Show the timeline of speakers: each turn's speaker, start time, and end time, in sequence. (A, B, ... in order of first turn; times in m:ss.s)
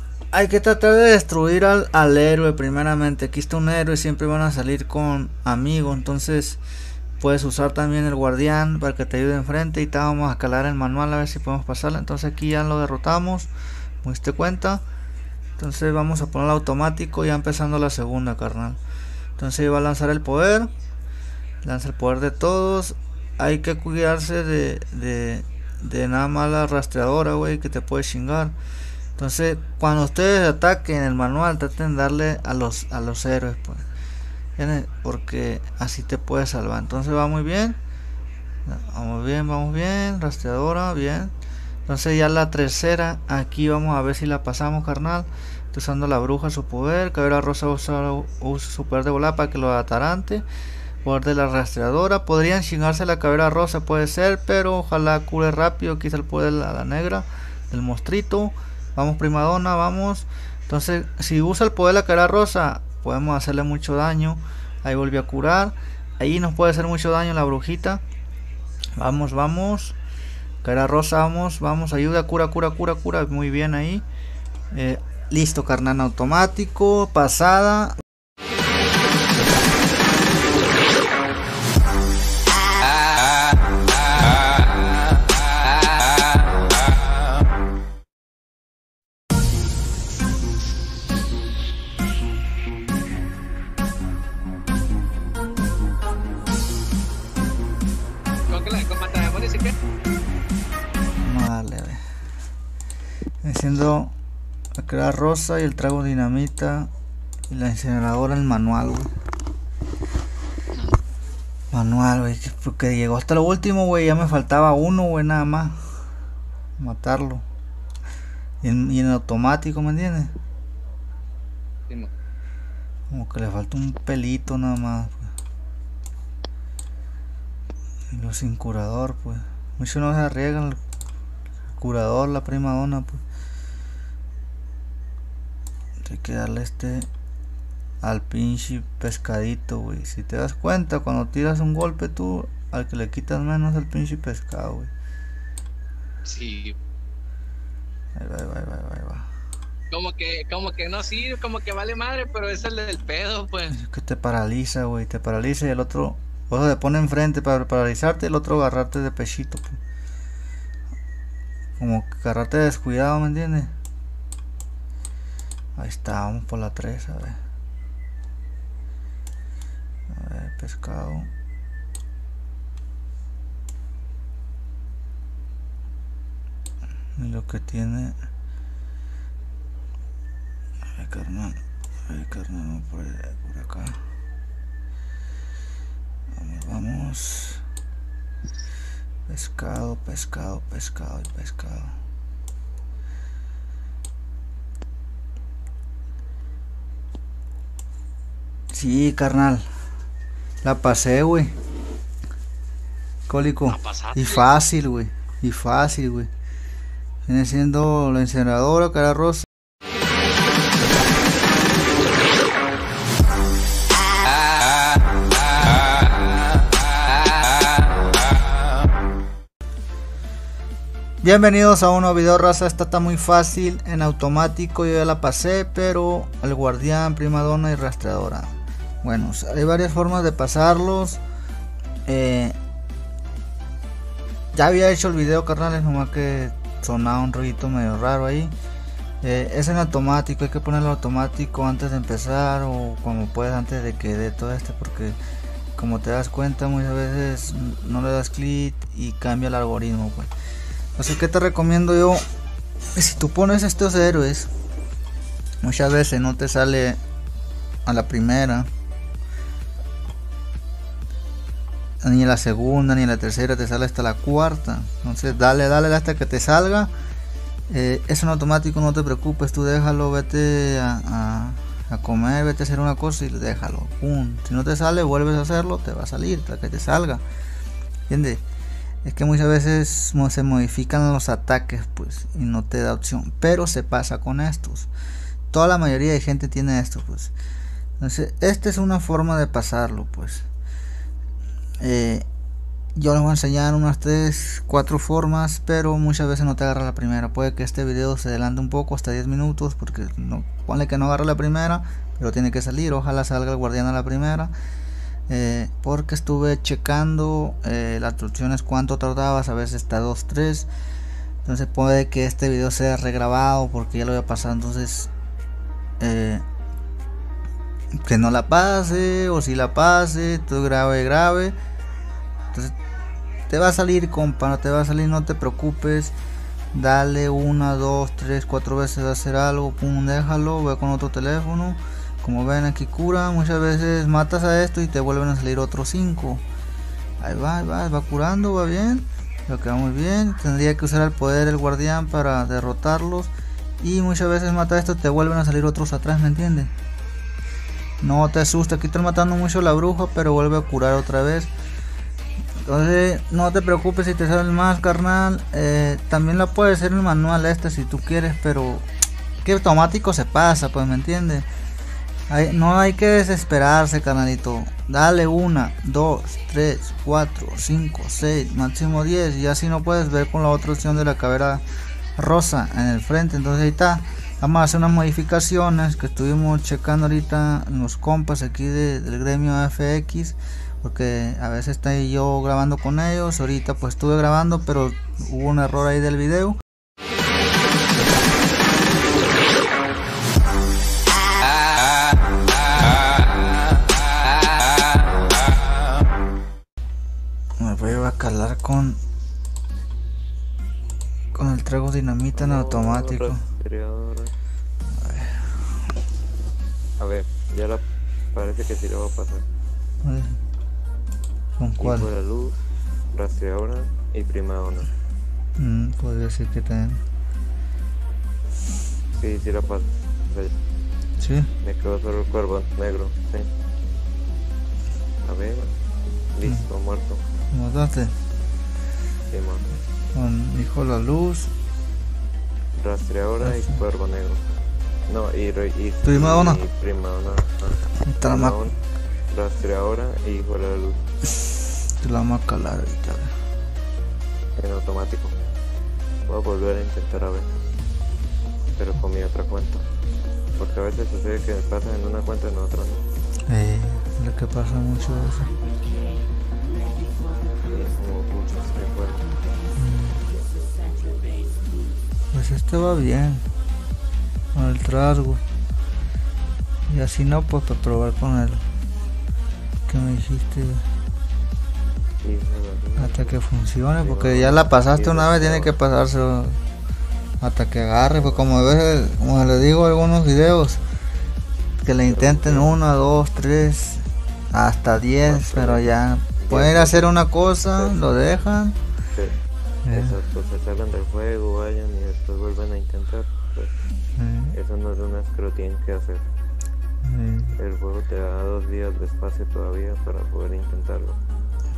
0:00.3-0:06.6 A
0:07.2-0:13.5 A
0:14.0-0:14.8 A
0:15.6-0:18.8 A
0:19.4-0:20.7 A
0:21.6-0:28.6 A
0:29.2-0:33.8 A
0:34.6-0:37.8 A
0:38.7-0:41.3 A
0:41.9-0:50.4 A
0:51.0-1:08.0 A
1:09.0-1:10.0 A
1:10.6-1:14.0 A
1:14.7-1:18.0 A
1:38.5-1:39.8 B
1:41.2-1:42.0 A
1:43.4-1:44.2 A
1:44.8-1:46.9 A
1:47.5-1:49.1 A
1:50.7-1:51.0 B
1:51.7-1:56.0 A
1:56.8-1:57.4 A
1:58.6-2:00.3 A
2:03.1-2:05.3 A
2:08.1-2:10.8 A
2:11.8-2:13.2 A
2:16.0-2:17.1 A
2:18.0-2:24.9 A
2:26.3-2:26.8 B
2:28.2-2:29.3 A
2:29.9-2:33.8 B
2:33.7-2:39.8 A
2:41.8-2:43.7 A
2:45.8-2:47.4 A
2:50.1-2:51.3 A
2:57.2-2:58.2 A
3:01.0-3:04.0 A
3:06.3-3:07.6 A
3:09.3-3:12.0 A
3:18.7-3:19.6 A
3:20.6-3:21.5 A
3:23.3-3:26.3 A
3:23.7-3:24.5 B
3:27.3-3:29.5 A
3:41.2-3:51.2 A
3:52.1-3:52.6 A
3:54.5-3:58.5 A
3:59.2-4:05.2 A
4:05.8-4:10.3 A
4:11.0-4:12.2 A
4:13.0-4:14.5 A
4:15.6-4:17.0 A
4:17.9-4:18.7 A
4:22.0-4:26.9 A
4:27.7-4:37.2 A
4:38.1-4:38.4 A
4:39.0-4:44.9 A
4:45.5-4:47.3 A
4:48.0-4:50.5 A
4:51.8-4:52.3 A
4:53.0-5:04.5 A
5:05.3-5:10.7 A
5:11.4-5:15.1 A
5:16.0-5:16.4 A
5:18.0-5:21.6 A
5:23.5-5:26.2 A
5:26.7-5:36.4 A
5:37.2-5:46.7 A
5:48.0-5:51.5 A
5:52.6-5:58.9 A
5:59.4-6:01.5 A
6:02.3-6:11.6 A
6:12.2-6:26.6 A
6:37.6-6:39.0 A
6:41.3-6:43.4 A
6:42.3-6:44.3 C
6:45.0-6:45.6 A
6:47.0-6:49.4 C
6:50.0-6:50.4 A
6:51.6-6:52.1 A
6:51.8-6:52.6 C
6:53.1-6:54.9 C
6:55.6-6:57.0 A
6:59.1-7:00.5 C
7:01.2-7:01.5 A
7:01.6-7:03.5 C
7:05.2-7:05.7 C
7:06.4-7:07.2 C
7:07.5-7:08.1 A
7:09.3-7:09.7 C
7:10.1-7:11.5 A
7:12.8-7:14.4 C
7:13.4-7:13.8 A
7:15.1-7:18.7 C
7:16.0-7:16.6 A
7:18.0-7:18.6 A
7:19.3-7:21.0 C
7:22.0-7:23.3 A
7:24.6-7:25.4 C
7:26.3-7:27.5 C
7:28.8-7:29.9 C
7:30.6-7:33.0 C
7:33.5-7:35.5 A
7:37.6-7:39.3 C
7:39.8-7:40.3 A
7:42.3-7:43.5 A
7:44.5-7:45.4 A
7:46.9-7:48.6 A
7:49.9-7:50.8 A
7:52.2-7:53.4 C
7:53.0-7:56.6 A
7:54.0-7:55.8 C
7:57.4-8:00.8 A
7:58.2-7:58.6 C
8:01.8-8:08.8 A
8:02.0-8:02.8 C
8:05.2-8:05.9 C
8:06.4-8:08.2 C
8:09.8-8:10.2 A
8:09.9-8:13.7 C
8:14.2-8:14.6 A
8:14.5-8:16.2 C
8:17.0-8:17.6 A
8:17.6-8:21.2 C